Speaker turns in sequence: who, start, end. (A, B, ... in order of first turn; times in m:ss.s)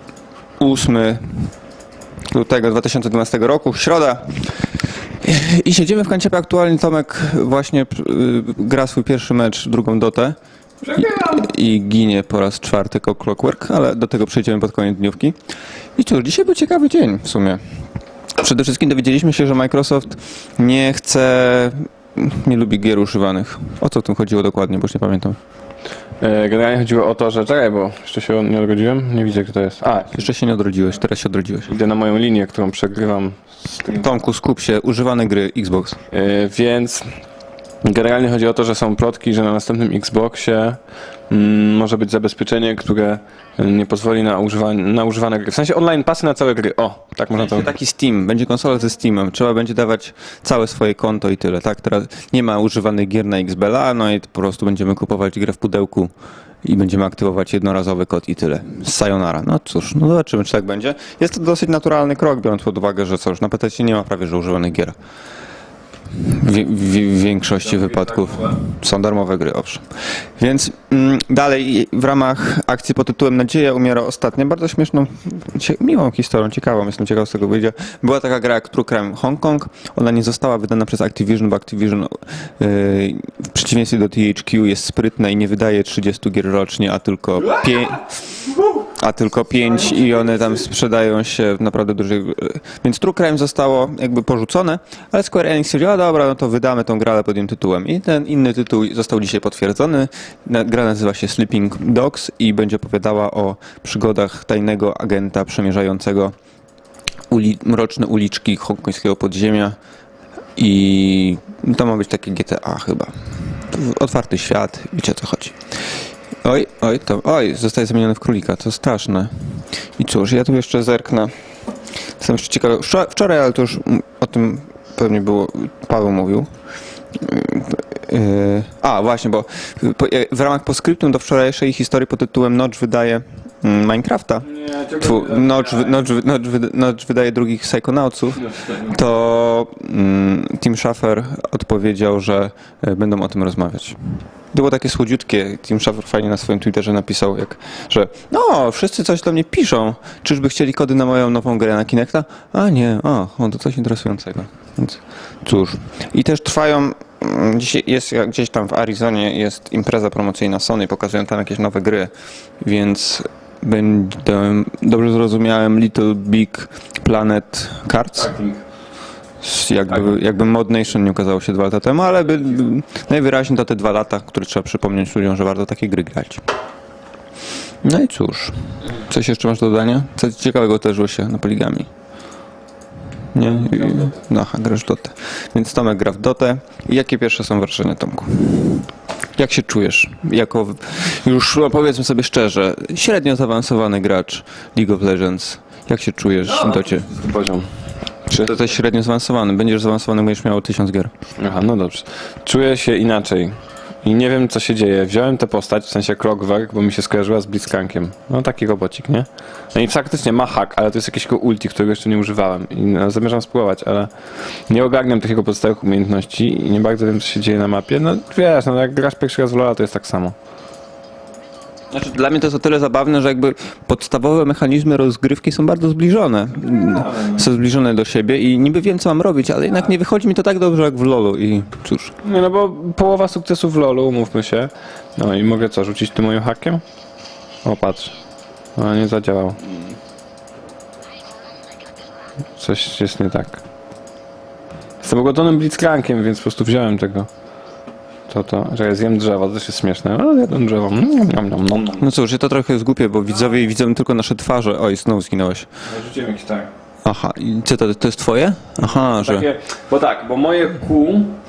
0:00.6-0:01.5 A
0:02.3-0:04.4 A
0:05.2-0:10.4 A
0:10.8-0:11.4 B
0:11.0-0:15.4 A
0:16.0-0:17.6 A
0:18.4-0:25.4 A
0:26.2-0:30.1 B
0:30.1-0:31.7 A
0:31.7-0:34.1 B
0:34.0-0:36.0 A
0:36.1-0:37.0 B
0:37.8-0:47.7 B
0:47.3-0:56.1 A
0:56.6-1:05.0 A
1:06.2-1:09.8 A
1:07.6-1:08.6 B
1:10.4-1:28.1 A
1:28.9-1:46.3 A
1:47.3-1:49.8 A
1:50.6-1:55.6 A
1:56.4-2:01.3 A
2:02.2-2:06.5 A
2:07.2-2:24.0 A
2:14.5-2:16.0 B
2:24.5-2:48.3 A
2:48.2-2:48.6 B
2:49.4-2:56.4 A
2:57.8-3:01.9 A
3:03.3-3:17.1 A
3:03.5-3:04.1 B
3:16.4-3:17.7 B
3:18.3-3:21.1 A
3:21.4-3:34.1 B
3:34.7-3:40.4 B
3:41.9-3:52.1 A
3:46.8-3:47.3 B
3:52.2-3:56.8 B
3:57.6-3:58.1 B
3:58.8-3:59.6 B
4:02.6-4:03.6 B
4:05.0-4:07.3 B
4:08.3-4:12.1 B
4:12.0-4:15.7 A
4:15.9-4:16.7 B
4:17.0-4:19.5 A
4:18.8-4:21.4 B